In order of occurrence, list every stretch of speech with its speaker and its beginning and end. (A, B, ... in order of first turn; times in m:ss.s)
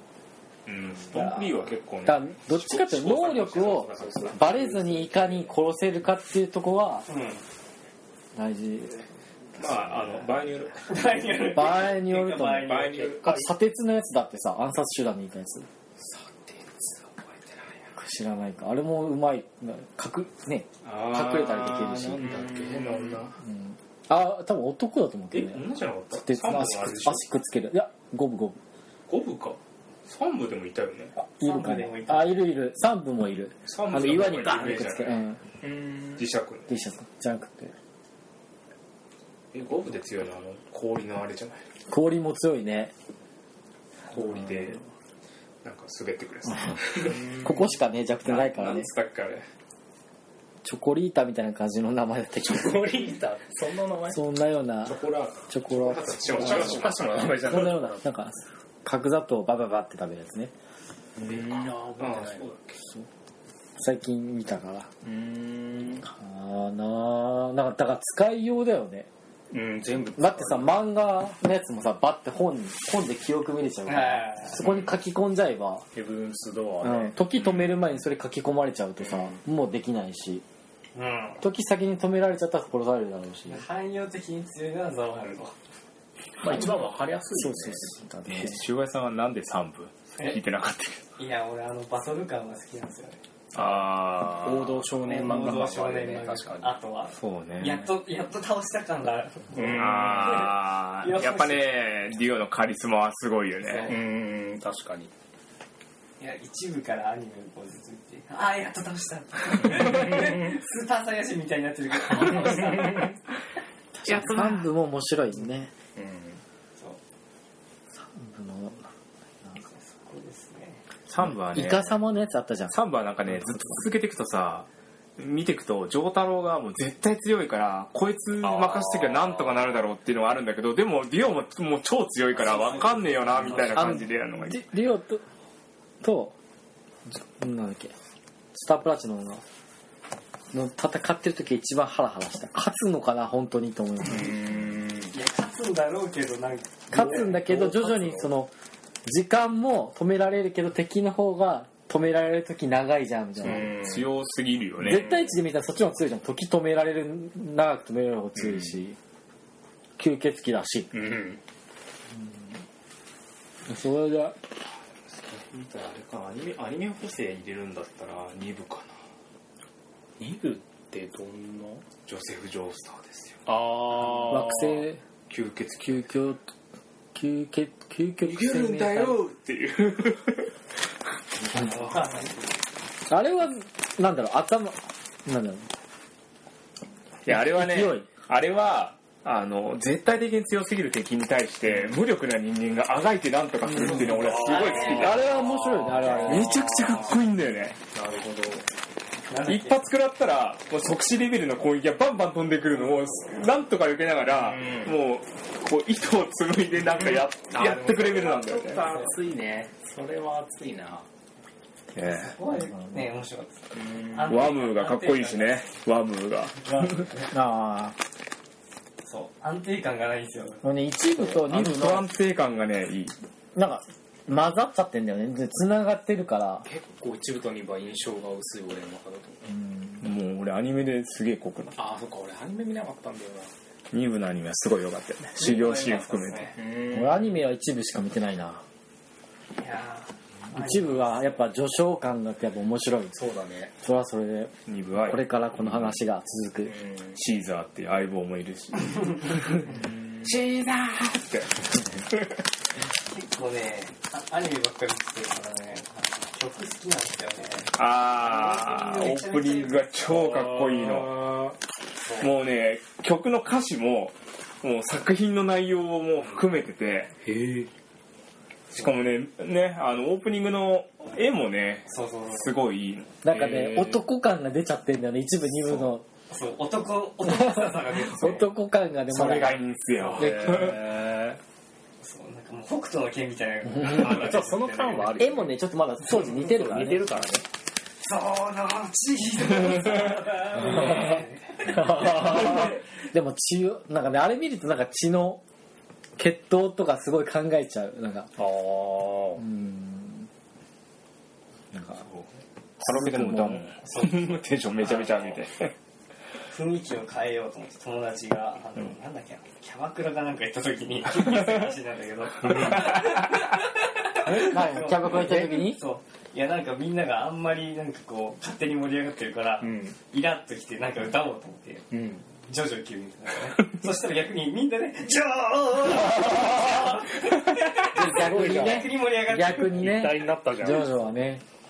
0:00.7-0:04.3 A
0:01.1-0:01.5 B
0:02.0-0:07.1 B
0:03.1-0:05.5 C
0:07.1-0:07.4 D
0:08.4-0:09.1 B
0:09.6-0:11.4 A
0:10.9-0:13.1 D
0:11.5-0:15.7 B
0:12.5-0:13.5 A
0:12.9-0:13.5 C
0:16.0-0:17.8 C
0:18.0-0:22.4 B
0:20.8-0:23.3 A
0:22.1-0:23.3 C
0:23.4-0:28.6 B
0:25.3-0:27.2 A
0:29.1-0:31.2 A
0:31.2-0:35.4 B
0:31.4-0:32.4 D
0:33.6-0:35.2 A
0:35.6-0:36.3 C
0:36.2-0:36.8 A
0:36.7-0:37.7 B
0:39.5-0:41.6 A
0:41.9-0:42.9 B
0:44.1-0:44.8 A
0:45.6-0:47.4 A
0:46.5-0:48.9 B
0:47.1-0:47.7 C
0:48.2-0:49.5 A
0:50.6-0:53.0 B
0:52.4-0:54.2 C
0:54.1-1:00.5 B
0:54.8-0:58.0 C
0:55.9-0:57.0 A
1:01.2-1:02.5 C
1:01.2-1:02.8 A
1:03.8-1:04.9 B
1:05.0-1:06.1 C
1:06.0-1:09.1 B
1:09.5-1:10.8 C
1:10.2-1:15.9 B
1:13.9-1:14.6 D
1:15.9-1:17.2 C
1:16.8-1:20.4 B
1:21.0-1:21.4 D
1:21.4-1:23.6 B
1:23.5-1:25.5 D
1:26.4-1:27.9 C
1:27.4-1:28.6 B
1:28.3-1:31.0 A
1:31.2-1:33.2 D
1:33.5-1:34.8 A
1:33.5-1:36.8 C
1:35.0-1:41.7 D
1:37.1-1:37.9 A
1:39.5-1:40.5 C
1:39.6-1:44.0 A
1:43.6-1:43.9 D
1:43.7-1:45.1 C
1:46.2-1:53.2 D
1:54.0-1:55.7 B
1:54.0-1:54.7 A
1:56.0-1:56.4 C
1:57.9-1:58.9 B
1:59.7-2:00.8 D
2:01.1-2:02.0 A
2:01.2-2:02.7 B
2:02.7-2:14.7 A
2:08.4-2:09.8 C
2:12.6-2:13.5 D
2:12.7-2:13.8 C
2:13.7-2:15.2 B
2:16.0-2:16.4 B
2:17.1-2:17.9 B
2:18.5-2:19.4 B
2:20.5-2:24.5 B
2:24.1-2:25.1 C
2:25.1-2:26.9 D
2:26.9-2:28.5 B
2:26.9-2:28.3 C
2:29.0-2:33.8 B
2:33.4-2:34.1 C
2:33.7-2:35.2 A
2:34.8-2:39.0 B
2:38.4-2:38.7 C
2:40.0-2:41.0 B
2:40.9-2:41.4 C
2:42.1-2:42.6 B
2:43.7-2:44.4 B
2:45.2-2:48.9 A
2:50.2-2:51.8 C
2:52.0-2:53.6 A
2:53.5-2:54.9 C
2:54.2-2:55.0 B
2:55.3-2:56.2 A
2:55.8-2:56.4 B
2:57.1-2:59.2 B
2:58.2-3:00.5 A
3:01.5-3:02.6 D
3:03.1-3:05.7 B
3:07.2-3:15.3 A
3:07.3-3:08.1 B
3:13.7-3:14.1 B
3:13.9-3:16.5 C
3:14.5-3:15.2 D
3:14.8-3:17.2 B
3:16.0-3:17.8 A
3:17.9-3:18.6 C
3:19.3-3:19.8 D
3:19.4-3:29.0 A
3:24.3-3:24.9 C
3:27.5-3:31.1 C
3:31.9-3:32.4 A
3:32.0-3:35.6 D
3:33.7-3:34.4 C
3:34.2-3:37.0 A
3:36.6-3:37.4 D
3:37.3-3:38.0 B
3:39.0-3:40.6 D
3:40.6-3:42.1 B
3:41.2-3:43.2 A
3:43.6-3:46.7 B
3:46.6-3:49.5 C
3:49.5-3:50.0 B
3:50.0-3:51.8 A
3:51.8-3:53.5 C
3:53.9-3:56.6 A
3:55.4-3:56.6 D
3:56.6-3:57.4 C
3:56.9-3:58.6 B
3:59.6-4:01.4 D
4:00.5-4:03.2 B
4:03.1-4:03.7 C
4:03.8-4:06.8 B
4:04.7-4:06.0 A
4:06.6-4:07.2 C
4:07.2-4:12.4 A
4:09.7-4:10.3 C
4:13.1-4:19.9 D
4:17.8-4:21.4 A
4:20.0-4:21.6 C
4:22.0-4:22.3 D
4:22.2-4:27.2 A
4:27.2-4:27.7 C
4:28.7-4:33.2 A
4:31.9-4:32.5 D
4:33.2-4:36.1 B
4:33.3-4:34.0 C
4:36.3-4:38.4 D
4:38.0-4:39.6 B
4:39.1-4:40.8 A
4:40.1-4:41.4 C
4:40.2-4:40.8 B
4:42.0-4:45.2 D
4:43.8-4:47.4 C
4:45.2-4:47.3 B
4:48.0-4:52.0 D
4:49.7-4:50.0 A
4:51.7-4:55.4 B
4:51.7-4:52.7 C
4:56.2-4:58.3 B
4:58.4-4:59.4 C
4:59.4-5:00.3 B
5:01.7-5:02.0 B
5:01.9-5:02.3 A
5:02.8-5:03.8 B
5:02.8-5:05.7 A
5:03.8-5:05.4 D
5:06.5-5:30.0 D
5:12.5-5:13.4 A
5:14.2-5:15.8 B
5:19.6-5:20.0 C
5:21.9-5:22.2 C
5:27.9-5:31.4 B
5:28.0-5:29.0 C
5:29.6-5:31.0 C